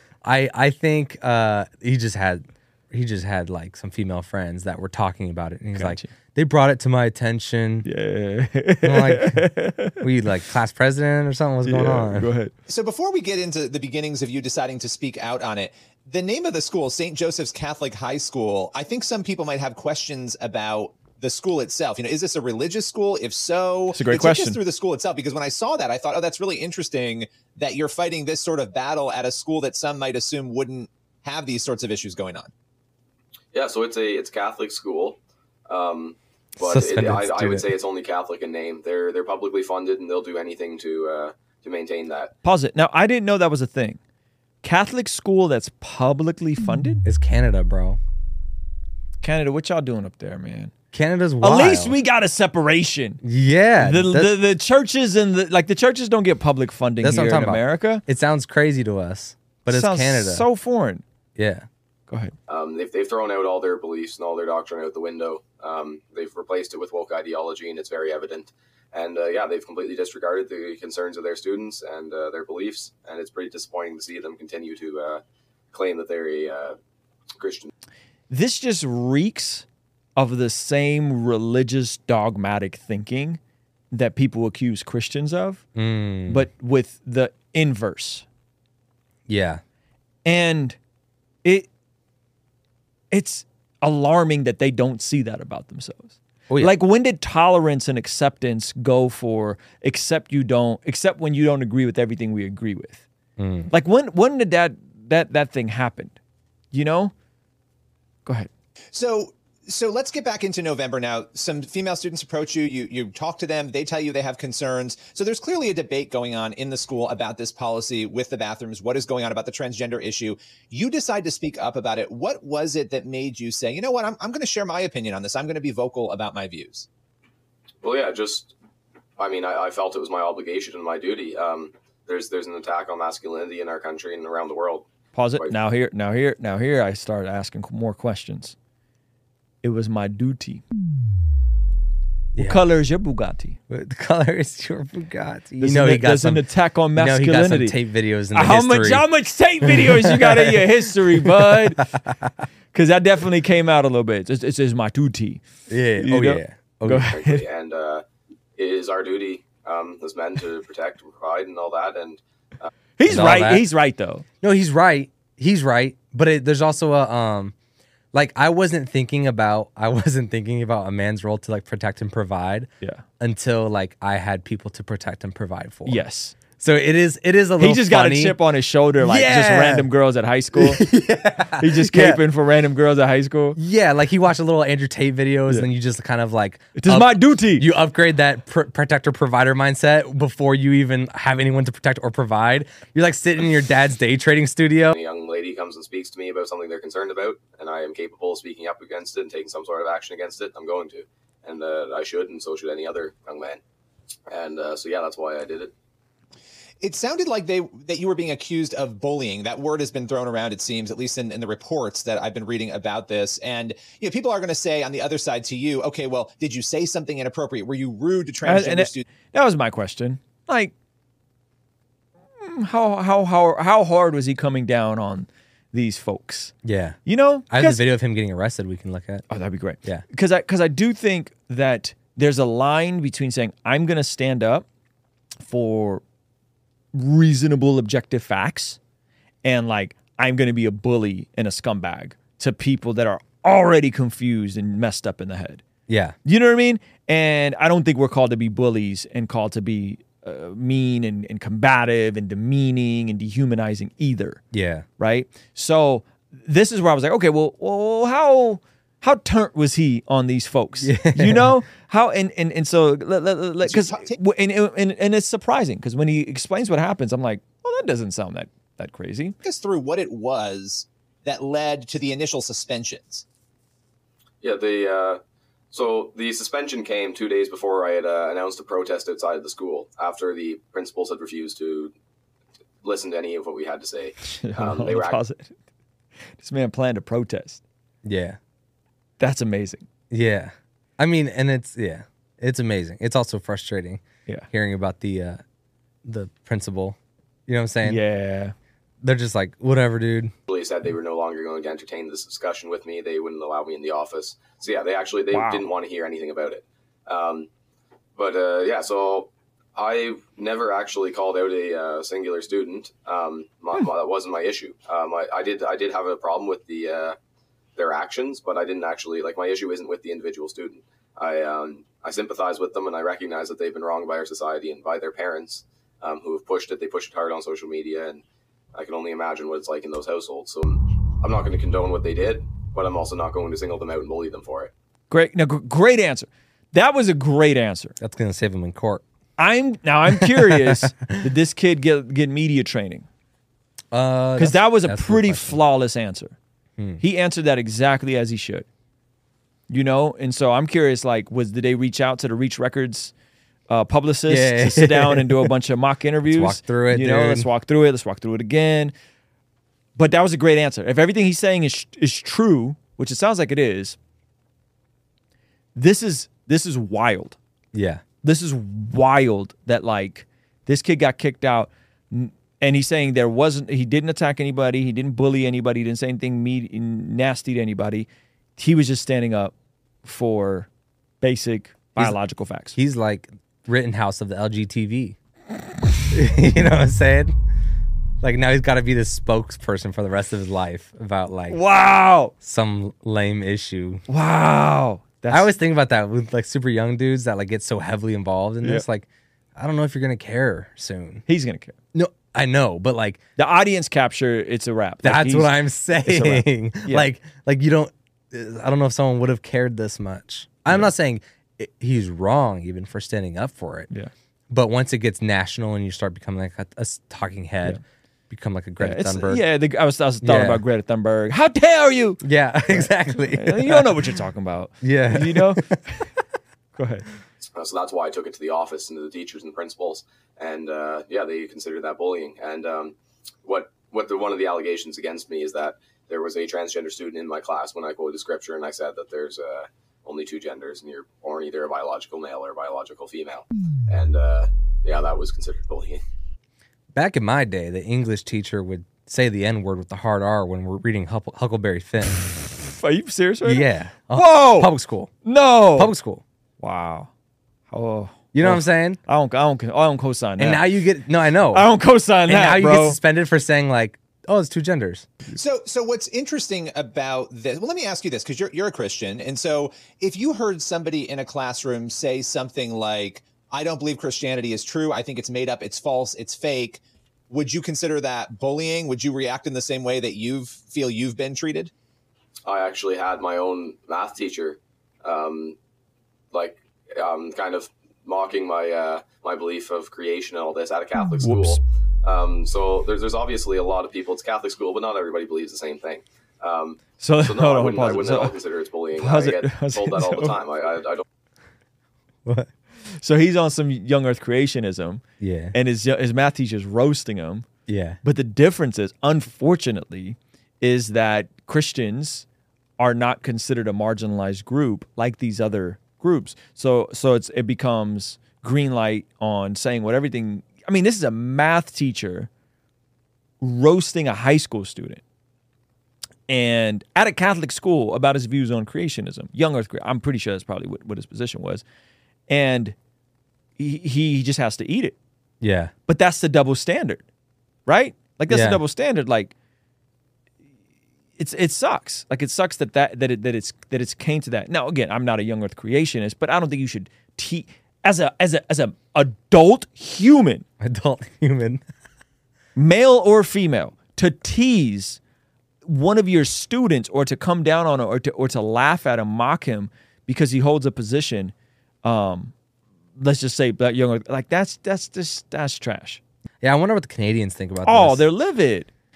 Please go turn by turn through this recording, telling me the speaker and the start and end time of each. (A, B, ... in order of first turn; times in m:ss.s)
0:00.2-0:07.9 A
0:05.7-0:06.1 B
0:07.8-0:10.0 B
0:08.8-0:12.3 A
0:11.6-0:12.5 B
0:12.7-0:32.5 C
0:23.9-0:24.6 B
0:33.5-0:42.3 D
0:36.6-0:37.7 A
0:42.4-0:44.0 B
0:44.6-0:47.0 B
0:47.0-0:48.0 A
0:49.2-0:50.7 B
0:50.9-0:52.0 A
0:51.4-0:53.2 B
0:53.2-0:54.3 A
0:53.8-0:58.0 B
0:57.0-1:00.5 A
0:59.7-1:01.0 B
1:01.4-1:01.7 A
1:02.1-1:02.3 B
1:02.5-1:16.8 D
1:17.4-1:17.7 D
1:18.3-1:19.6 B
1:20.2-1:23.4 B
1:23.9-1:25.6 B
1:25.7-1:26.4 A
1:26.3-1:28.2 B
1:29.3-1:29.6 A
1:30.2-1:30.8 B
1:33.1-1:43.0 B
1:43.4-1:43.7 A
1:43.7-1:46.2 B
1:46.7-1:47.1 B
1:48.9-2:06.9 C
2:07.8-2:08.5 D
2:09.2-2:14.8 D
2:15.1-2:18.5 B
2:19.6-2:20.6 B
2:22.3-2:22.6 A
2:22.4-2:23.6 B
2:23.7-2:29.1 A
2:25.6-2:27.8 B
2:28.3-2:31.9 B
2:29.6-2:32.3 A
2:32.7-2:35.4 B
2:35.7-2:37.1 A
2:36.0-2:37.4 B
2:37.1-2:38.0 D
2:38.6-2:42.7 D
2:43.0-2:44.2 B
2:43.1-2:43.7 A
2:44.4-2:47.5 A
2:48.1-2:56.0 A
2:55.8-2:56.4 B
2:56.5-2:58.4 A
2:57.6-3:00.8 B
2:59.0-2:59.9 A
3:00.5-3:02.2 A
3:01.6-3:03.6 B
3:03.6-3:14.9 A
3:06.7-3:07.7 B
3:14.9-3:23.6 D
3:24.3-3:25.7 D
3:26.8-3:39.0 C
3:38.4-3:40.7 B
3:42.4-3:46.5 B
3:46.6-3:49.2 A
3:47.0-3:47.8 B
3:49.3-3:54.6 B
3:55.4-3:56.0 B
3:56.9-3:58.8 B
3:59.4-4:05.6 B
4:05.9-4:06.2 A
4:06.2-4:14.4 B
4:14.5-4:14.8 A
4:15.0-4:29.4 B
4:20.8-4:21.5 A
4:23.6-4:24.2 C
4:29.4-4:33.2 C
4:34.4-4:35.2 D
4:35.7-4:41.9 D
4:42.8-4:45.2 D
4:44.3-4:45.6 B
4:46.4-4:47.6 B
4:48.0-4:48.4 A
4:49.2-4:49.8 B
4:50.1-4:55.4 A
4:56.0-4:58.0 A
4:57.8-4:58.5 B
4:59.0-5:00.3 A
5:00.5-5:07.5 D
5:05.3-5:05.6 B
5:08.2-5:17.2 D
5:17.8-5:28.2 D
5:28.7-5:34.7 D
5:35.1-5:38.0 B
5:38.0-5:39.0 A
5:39.4-5:43.0 B
5:40.1-5:41.2 A
5:43.9-5:45.6 A
5:44.4-5:46.4 B
5:46.8-5:47.0 A
5:47.0-5:48.7 B
5:49.7-5:53.1 B
5:53.7-5:58.9 B
5:54.3-5:55.5 A
5:56.2-5:57.5 A
6:00.0-6:04.0 B
6:05.7-6:07.4 B
6:07.7-6:08.0 A
6:08.2-6:19.5 B
6:20.0-6:20.7 B
6:21.2-6:22.8 B
6:22.7-6:25.2 A
6:26.1-6:27.3 A
6:28.2-6:31.6 A
6:31.5-6:32.3 B
6:32.4-6:34.0 A
6:34.1-6:35.5 B
6:35.3-6:41.2 A
6:41.3-6:41.8 B
6:41.9-6:43.2 A
6:43.4-6:47.1 B
6:45.0-6:53.9 A
6:54.5-6:59.4 A
6:58.8-7:06.0 B
7:00.2-7:00.6 A
7:02.2-7:04.0 A
7:04.8-7:05.8 A
7:06.8-7:07.0 B
7:07.5-7:26.0 D
7:26.9-7:32.3 A
7:32.6-7:34.7 B
7:33.4-7:35.1 A
7:35.2-7:35.9 B
7:35.7-7:36.2 A
7:36.6-7:37.1 B
7:37.7-7:40.7 B
7:38.3-7:39.0 A
7:40.4-7:41.7 A
7:41.5-7:43.0 B
7:42.3-7:45.1 A
7:45.3-8:01.7 C
8:02.4-8:05.6 D
8:06.3-8:21.0 D
8:11.2-8:11.6 B
8:17.0-8:18.4 B
8:19.0-8:20.4 B
8:22.2-8:22.5 A
8:22.8-8:27.5 B
8:25.2-8:25.5 A
8:27.7-8:28.0 A
8:28.0-8:32.2 B
8:32.8-8:42.3 B
8:43.4-8:45.0 B
8:46.3-8:51.6 B
8:52.3-8:52.7 B
8:53.6-8:55.0 B
8:55.4-8:55.7 A
8:55.9-8:57.0 B
8:57.6-8:59.3 B
8:58.3-8:58.6 A
9:01.2-9:10.4 B
9:10.6-9:11.6 A
9:12.5-9:15.0 B
9:15.6-9:22.3 B
9:23.0-9:26.0 B
9:26.4-9:28.0 A
9:27.6-9:28.7 B